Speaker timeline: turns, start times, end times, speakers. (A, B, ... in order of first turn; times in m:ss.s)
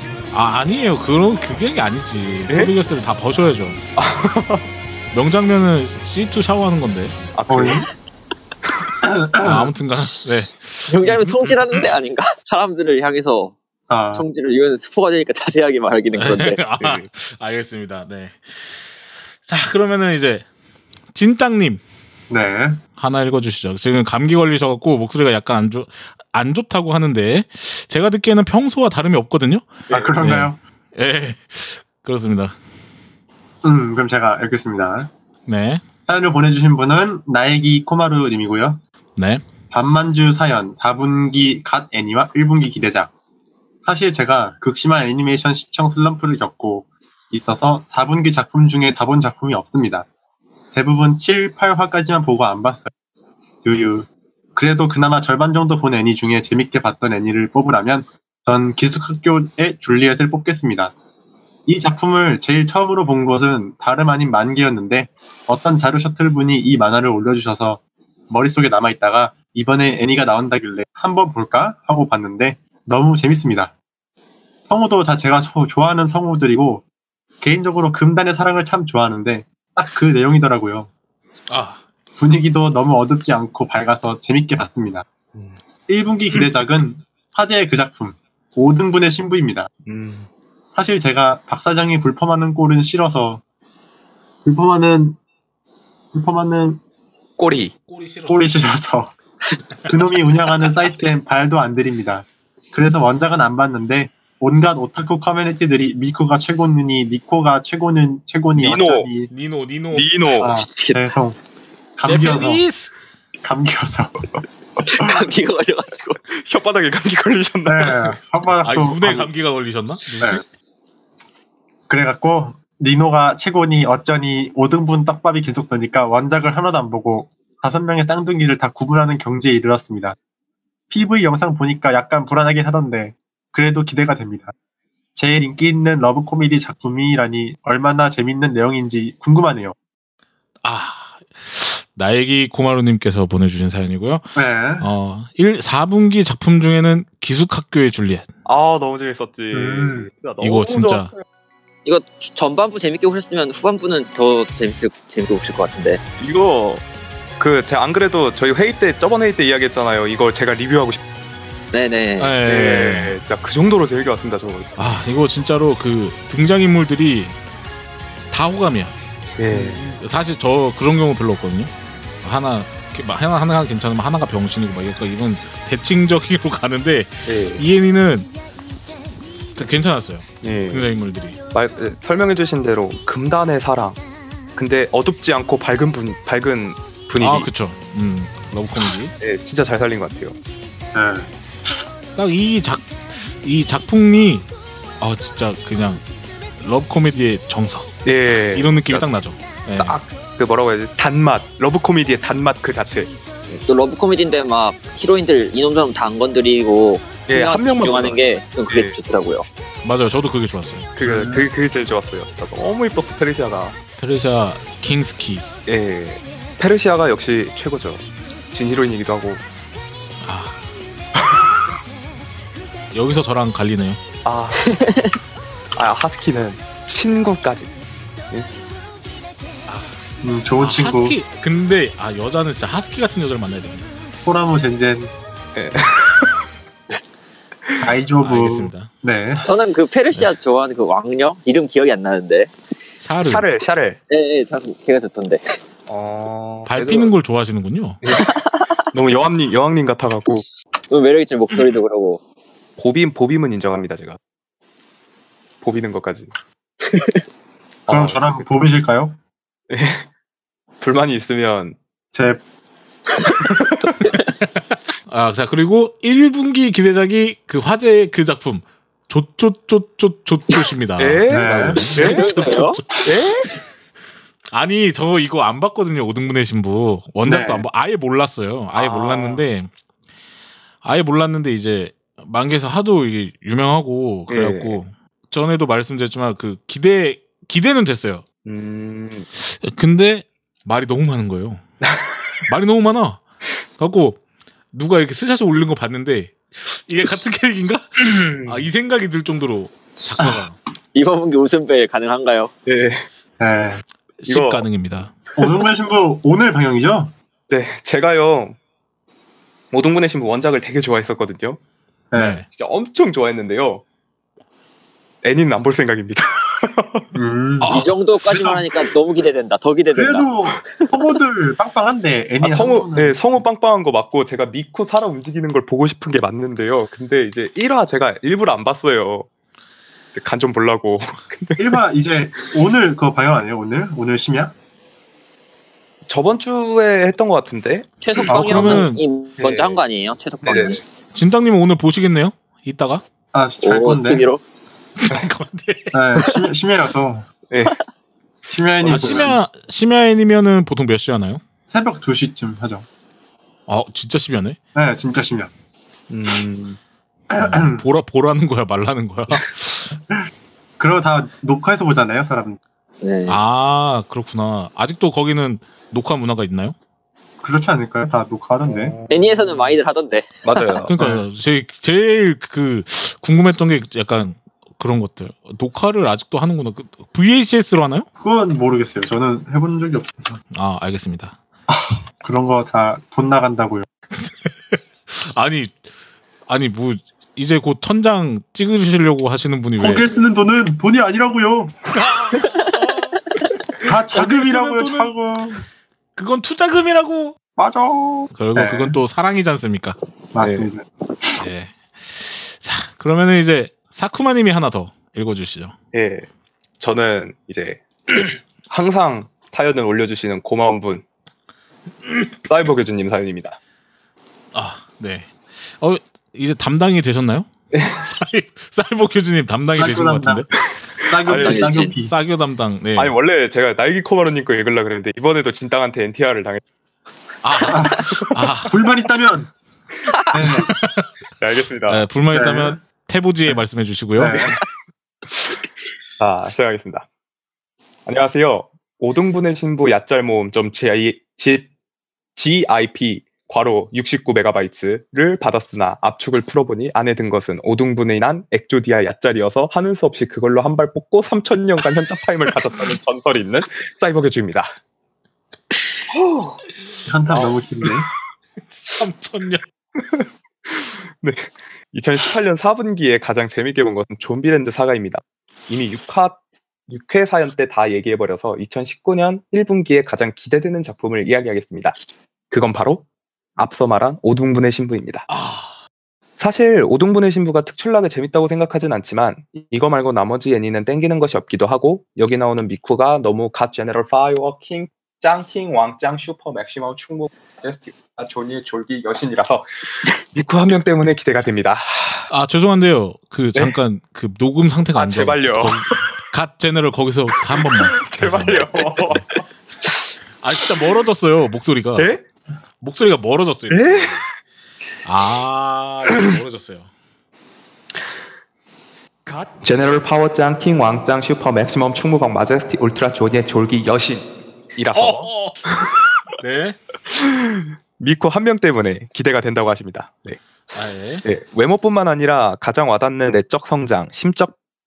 0:00.3-0:03.8 A
0:02.5-0:02.7 B
0:04.0-0:04.7 B
0:05.1-0:07.2 A
0:07.3-0:07.9 B
0:07.5-0:07.9 C
0:09.0-0:09.7 C
0:09.4-0:11.9 A
0:10.9-0:13.6 D
0:13.9-0:14.2 C
0:14.1-0:16.6 D
0:16.2-0:18.8 A
0:16.8-0:17.1 B
0:19.5-0:20.5 A
0:21.2-0:21.8 A
0:22.3-0:22.8 C
0:23.0-0:32.6 A
0:29.9-0:30.2 B
0:29.9-0:30.6 C
0:33.6-0:35.1 C
0:35.5-0:35.8 A
0:36.1-0:38.8 C
0:39.2-0:39.4 A
0:39.7-0:43.1 C
0:43.8-0:50.1 C
0:50.7-0:52.9 C
0:53.6-1:00.9 C
1:01.7-1:13.7 C
1:14.7-1:16.8 C
1:17.4-1:20.9 C
1:21.5-1:21.8 A
1:22.2-1:25.1 C
1:25.9-1:29.7 C
1:29.9-1:30.3 B
1:30.8-1:33.4 C
1:34.4-1:35.2 C
1:36.1-1:36.8 C
1:37.4-1:37.7 B
1:37.9-1:38.5 A
1:38.3-1:39.1 C
1:39.9-1:49.3 C
1:48.6-1:49.1 B
1:49.3-1:50.1 A
1:49.9-1:50.6 B
1:50.4-1:51.4 C
1:50.5-1:51.1 D
1:52.0-1:52.6 C
1:52.0-1:52.9 A
1:53.4-1:54.2 C
1:54.9-1:56.2 D
1:56.3-1:58.1 B
1:57.7-1:59.3 C
1:58.6-2:00.4 A
2:01.9-2:10.2 C
2:10.9-2:14.5 C
2:15.2-2:19.8 C
2:20.6-2:24.2 A
2:24.4-2:24.9 C
2:24.8-2:28.3 A
2:28.4-2:31.2 B
2:29.5-2:30.1 C
2:30.4-2:31.1 A
2:31.8-2:36.0 D
2:36.2-2:36.8 B
2:37.4-2:41.0 B
2:41.7-2:42.4 D
2:42.2-2:43.2 A
2:42.4-2:44.8 B
2:44.8-2:47.4 A
2:48.3-2:48.9 A
2:49.4-2:50.0 B
2:49.5-2:51.7 A
2:52.2-2:58.3 A
2:57.3-2:57.6 B
2:59.6-3:01.4 A
3:00.4-3:00.9 B
3:01.5-3:04.0 B
3:04.6-3:07.5 B
3:07.2-3:09.1 A
3:09.2-3:10.4 B
3:10.9-3:11.3 C
3:12.2-3:14.5 A
3:15.0-3:16.0 A
3:16.6-3:18.0 A
3:18.0-3:19.1 B
3:18.5-3:20.0 A
3:19.8-3:23.1 B
3:23.6-3:29.4 D
3:27.3-3:29.0 B
3:29.8-3:30.9 A
3:31.0-3:33.8 B
3:31.0-3:31.5 C
3:34.0-3:35.5 A
3:35.7-3:39.4 B
3:40.2-3:40.6 A
3:42.9-3:44.0 A
3:44.2-3:44.7 B
3:44.7-3:45.1 D
3:45.8-3:47.7 B
3:49.7-3:50.0 A
3:50.2-3:51.2 C
3:50.6-3:53.9 A
3:54.2-3:55.1 C
3:55.6-3:56.4 B
3:57.8-3:59.5 C
3:58.2-3:58.9 A
3:59.4-4:02.5 D
4:03.0-4:03.5 A
4:03.2-4:04.0 B
4:04.1-4:05.4 D
4:05.9-4:07.1 B
4:06.7-4:08.0 A
4:08.0-4:08.3 B
4:08.9-4:10.4 B
4:10.9-4:12.2 D
4:12.8-4:14.2 B
4:15.6-4:16.3 B
4:16.9-4:17.2 D
4:17.9-4:18.4 B
4:17.9-4:19.2 C
4:19.7-4:20.1 B
4:20.8-4:21.8 B
4:22.1-4:22.4 C
4:23.4-4:23.9 B
4:25.1-4:33.1 A
4:31.0-4:32.3 B
4:31.3-4:32.0 C
4:32.0-4:32.8 D
4:33.0-4:33.5 B
4:34.5-4:39.7 A
4:37.2-4:37.7 C
4:38.8-4:39.4 B
4:40.8-4:48.2 A
4:44.3-4:44.8 B
4:48.4-4:49.3 B
4:49.5-4:51.6 A
4:52.5-4:53.2 A
4:53.8-4:54.2 A
4:54.7-5:00.6 A
4:58.3-4:58.7 B
5:00.9-5:02.5 D
5:02.7-5:03.1 B
5:03.4-5:03.8 C
5:04.2-5:05.2 A
5:04.3-5:04.6 B
5:05.4-5:07.1 C
5:07.5-5:08.6 B
5:09.7-5:11.6 B
5:12.1-5:12.4 C
5:12.2-5:12.5 A
5:12.5-5:13.8 B
5:15.2-5:17.1 B
5:17.2-5:18.7 C
5:17.6-5:18.0 A
5:17.7-5:20.3 D
5:19.9-5:23.2 C
5:22.4-5:29.3 B
5:30.1-5:31.8 B
5:31.6-5:34.5 C
5:36.1-5:37.9 B
5:38.0-5:40.8 D
5:38.3-5:39.0 A
5:38.3-5:38.8 C
5:39.4-5:39.8 B
5:40.4-5:40.8 B
5:41.1-5:43.0 A
5:43.3-5:44.3 C
5:43.6-5:44.4 D
5:45.0-5:46.0 A
5:45.9-5:47.3 C
5:47.5-5:47.8 B
5:48.5-5:49.4 C
5:48.8-5:51.4 A
5:48.9-5:49.3 B
5:51.7-5:52.9 C
5:53.7-5:54.6 A
5:54.8-5:55.5 C
5:56.1-5:56.8 B
5:57.3-5:57.8 C
5:57.4-6:00.0 A
6:00.8-6:02.6 C
6:03.0-6:03.4 D
6:03.3-6:06.8 A
6:07.4-6:09.0 C
6:08.6-6:09.8 B
6:09.1-6:10.8 D
6:10.4-6:10.9 B
6:10.9-6:18.1 A
6:11.0-6:11.2 C
6:18.2-6:20.4 C
6:20.5-6:21.4 A
6:21.7-6:23.9 C
6:24.2-6:25.8 A
6:26.5-6:30.1 A
6:29.8-6:31.9 C
6:31.9-6:33.2 A
6:33.8-6:35.6 C
6:34.1-6:35.1 A
6:36.2-6:37.4 A
6:37.6-6:39.0 C
6:38.3-6:40.0 A
6:40.3-6:41.4 C
6:40.4-6:40.7 B
6:41.4-6:45.7 A
6:45.9-6:46.3 B
6:46.8-6:51.0 B
6:52.4-6:53.6 B
6:54.5-7:00.5 A
6:57.7-6:58.0 B
6:59.8-7:00.5 C
7:01.0-7:02.2 C
7:01.2-7:01.8 B
7:01.3-7:01.9 D
7:02.0-7:03.2 A
7:03.0-7:06.6 B
7:07.4-7:08.8 A
7:07.6-7:09.5 C
7:08.0-7:08.3 B
7:10.3-7:10.7 C
7:10.4-7:11.1 A
7:11.4-7:12.0 B
7:11.9-7:14.5 A
7:12.3-7:12.8 C
7:14.2-7:14.6 C
7:16.2-7:17.1 B
7:18.1-7:21.7 B
7:22.4-7:34.7 B
7:36.1-7:36.6 B
7:37.1-7:38.1 C
7:37.3-7:37.6 B
7:38.8-7:39.6 A
7:40.0-7:52.0 B
7:52.5-7:53.0 B
7:53.6-7:55.2 B
7:55.3-7:55.8 A
7:56.4-8:12.3 B
8:12.3-8:19.2 A
8:15.0-8:15.9 B
8:17.5-8:19.3 B
8:20.4-8:22.1 A
8:22.0-8:22.2 B
8:22.8-8:24.2 A
8:23.7-8:24.2 B
8:25.0-8:26.9 A
8:29.3-8:35.3 B
8:34.9-8:35.6 A
8:36.4-8:36.8 A
8:37.2-8:40.4 B
8:40.7-8:41.2 A
8:41.2-8:44.6 B